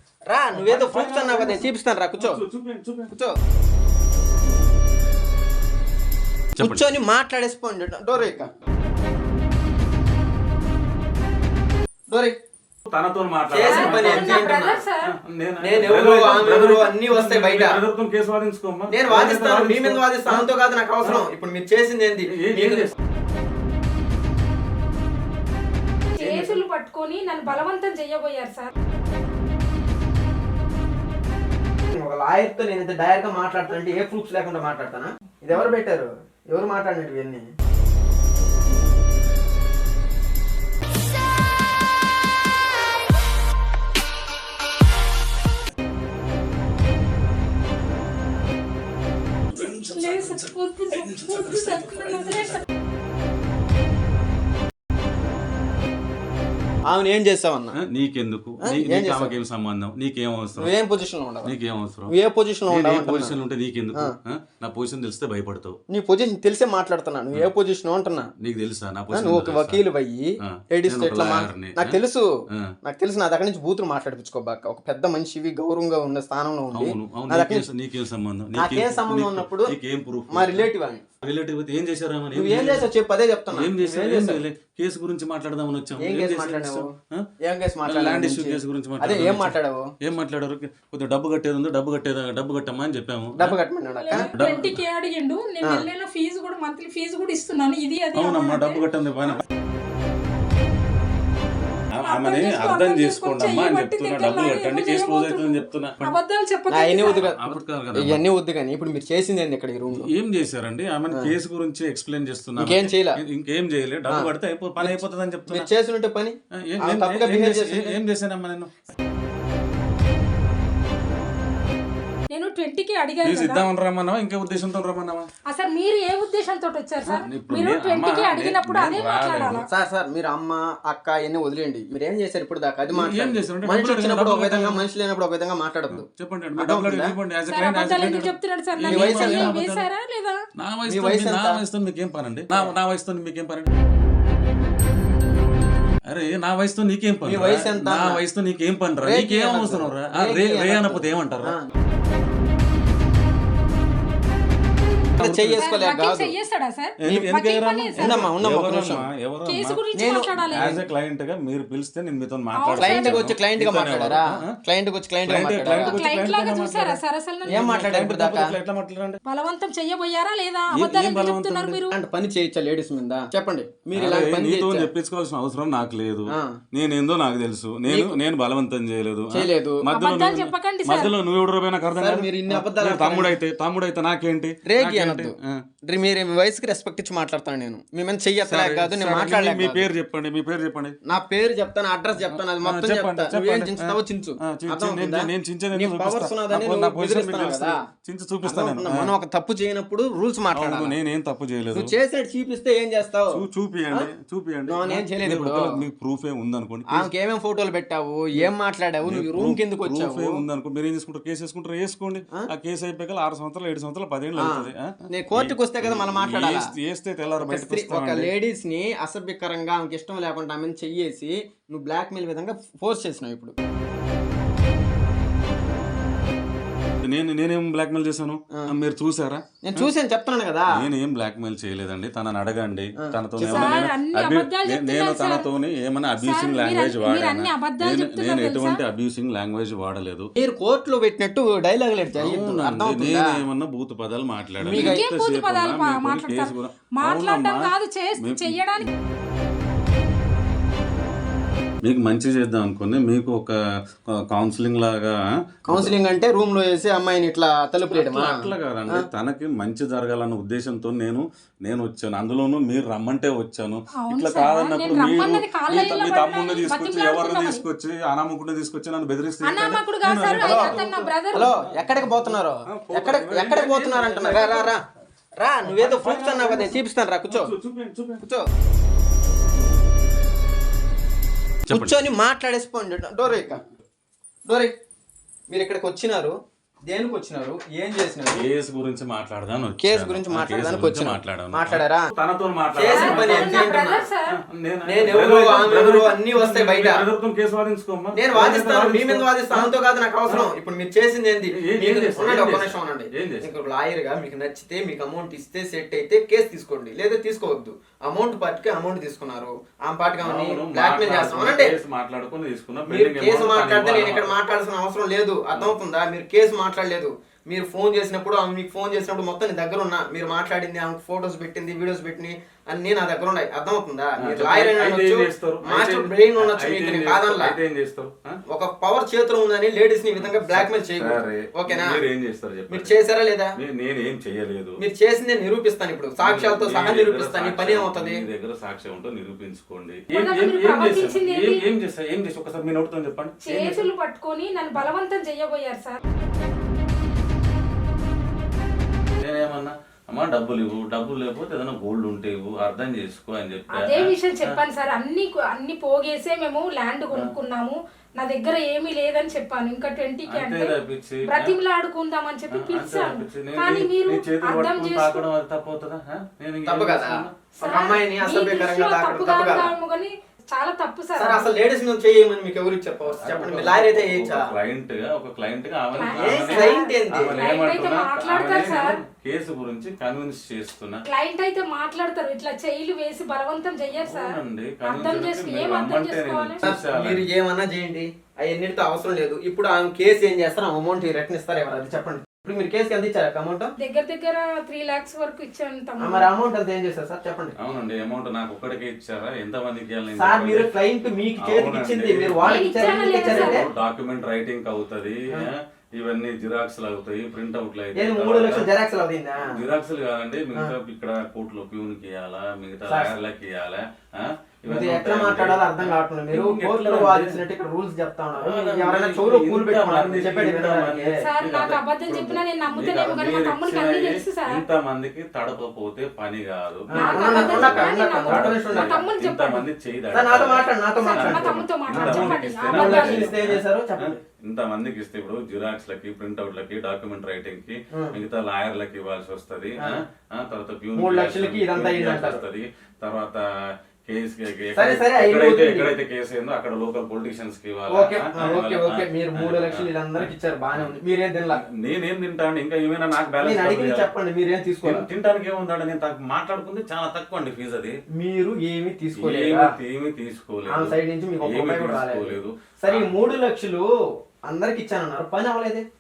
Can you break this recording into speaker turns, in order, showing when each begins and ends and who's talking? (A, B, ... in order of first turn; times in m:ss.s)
0:00.3-0:02.4 A
0:00.5-0:03.1 B
0:06.6-0:06.9 B
0:06.6-0:08.5 A
0:12.9-0:14.6 B
0:13.5-0:14.8 A
0:13.6-0:15.1 C
0:15.2-0:20.5 B
0:15.6-0:17.8 A
0:18.9-0:22.9 A
0:22.3-0:22.9 B
0:26.2-0:28.7 C
0:26.2-0:26.6 B
0:31.9-0:37.4 A
0:49.6-0:52.6 C
0:49.7-0:50.4 B
0:51.0-0:51.9 B
0:56.9-0:57.8 A
0:57.8-1:00.7 B
0:58.6-0:59.3 A
1:00.6-1:01.5 A
1:01.4-1:02.1 B
1:02.1-1:03.4 A
1:02.7-1:05.8 B
1:05.9-1:08.3 A
1:08.4-1:09.8 B
1:09.1-1:12.3 A
1:10.5-1:12.0 B
1:12.8-1:17.6 A
1:16.7-1:20.7 B
1:18.5-1:19.7 A
1:20.3-1:21.1 A
1:21.2-1:22.9 B
1:22.3-1:24.4 A
1:23.5-1:27.2 B
1:26.0-1:26.9 A
1:27.4-1:29.9 A
1:27.9-1:33.6 B
1:33.4-1:34.3 A
1:34.0-1:38.8 C
1:34.1-1:34.8 B
1:38.1-1:39.4 B
1:42.0-1:46.1 B
1:42.0-1:47.3 C
1:46.7-1:50.1 A
1:47.0-1:48.2 B
1:49.9-1:55.7 B
1:52.6-1:53.2 A
1:54.1-1:58.0 A
1:56.7-1:58.7 B
2:02.3-2:03.6 C
2:03.2-2:05.3 B
2:05.5-2:09.7 C
2:07.1-2:09.7 B
2:09.7-2:16.0 A
2:12.9-2:14.8 B
2:15.9-2:19.8 B
2:16.6-2:17.1 A
2:17.5-2:20.4 C
2:18.9-2:19.5 A
2:20.6-2:23.7 B
2:20.9-2:21.6 A
2:26.1-2:31.5 B
2:27.2-2:28.2 A
2:29.0-2:31.6 A
2:35.2-2:35.6 B
2:35.2-2:36.3 A
2:35.5-2:38.2 C
2:37.0-2:39.8 B
2:38.0-2:39.1 A
2:39.4-2:40.7 C
2:40.0-2:40.8 A
2:40.5-2:44.4 B
2:42.6-2:43.3 C
2:42.8-2:46.0 A
2:45.2-2:49.2 B
2:45.7-2:47.6 C
2:47.5-2:48.5 A
2:49.2-2:51.9 C
2:50.7-2:51.8 B
2:51.9-2:54.9 A
2:53.9-3:05.6 B
2:56.3-2:56.6 A
2:57.9-2:58.2 A
2:59.3-2:59.8 A
2:59.9-3:01.1 C
3:01.9-3:03.4 A
3:04.6-3:05.3 A
3:05.8-3:09.9 A
3:08.4-3:10.9 B
3:11.1-3:17.8 A
3:12.2-3:19.1 B
3:18.4-3:20.9 A
3:20.5-3:21.9 B
3:21.7-3:24.1 A
3:23.3-3:27.1 B
3:24.7-3:25.8 A
3:26.9-3:30.4 A
3:29.0-3:38.3 B
3:34.4-3:36.6 A
3:37.4-3:43.5 A
3:47.0-3:49.9 B
3:49.6-3:50.8 A
3:50.7-4:00.3 B
3:53.0-3:53.8 A
3:53.4-3:55.4 C
3:56.2-3:58.8 C
4:00.4-4:03.3 A
4:02.2-4:08.6 B
4:04.6-4:05.0 A
4:04.7-4:08.9 C
4:11.8-4:13.5 B
4:14.2-4:15.1 B
4:15.7-4:19.0 A
4:17.9-4:34.8 B
4:23.9-4:27.6 C
4:29.4-4:31.5 C
4:30.3-4:34.8 A
4:35.4-4:37.5 A
4:35.6-4:38.2 B
4:41.6-4:42.0 B
4:41.7-4:43.6 A
4:44.5-4:44.7 A
4:45.5-4:46.3 A
4:46.9-4:48.4 A
4:48.3-4:53.8 B
4:49.8-4:52.0 A
4:52.7-4:54.0 A
4:52.9-4:54.4 C
4:54.4-4:59.7 B
4:54.8-4:57.0 A
4:58.1-5:11.7 A
5:01.5-5:03.5 B
5:10.2-5:14.3 B
5:12.9-5:27.6 A
5:24.2-5:28.4 B
5:28.5-5:32.0 A
5:30.2-5:33.0 B
5:32.7-5:33.5 A
5:33.6-5:34.8 B
5:34.8-5:38.2 A
5:36.2-5:43.9 B
5:40.1-5:41.6 C
5:43.4-5:46.0 C
5:49.2-5:54.1 B
5:53.7-6:05.3 C
6:00.3-6:01.5 B
6:02.5-6:07.4 B
6:06.6-6:09.7 A
6:07.6-6:11.6 C
6:11.2-6:14.5 A
6:13.0-6:21.0 B
6:15.9-6:19.0 C
6:16.1-6:17.4 A
6:21.0-6:26.6 C
6:24.0-6:27.3 B
6:26.6-6:33.7 A
6:33.8-6:36.3 C
6:36.0-6:37.5 A
6:37.6-6:40.7 B
6:40.1-6:43.6 A
6:41.4-6:48.7 B
6:42.4-6:43.6 C
6:48.0-6:49.6 A
6:49.4-6:57.4 B
6:52.9-6:53.1 A
6:54.7-7:01.2 A
6:58.4-7:23.4 B
7:01.2-7:04.6 C
7:06.9-7:09.0 A
7:06.9-7:09.6 C
7:10.1-7:14.2 A
7:11.0-7:13.3 C
7:21.0-7:22.4 A
7:24.1-7:31.0 B
7:24.7-7:25.9 A
7:27.9-7:31.6 A
7:31.5-7:34.1 B
7:33.4-7:35.1 A
7:34.8-7:37.9 B
7:38.2-7:39.7 A
7:39.2-7:43.1 B
7:40.7-7:43.8 A
7:44.4-7:45.8 A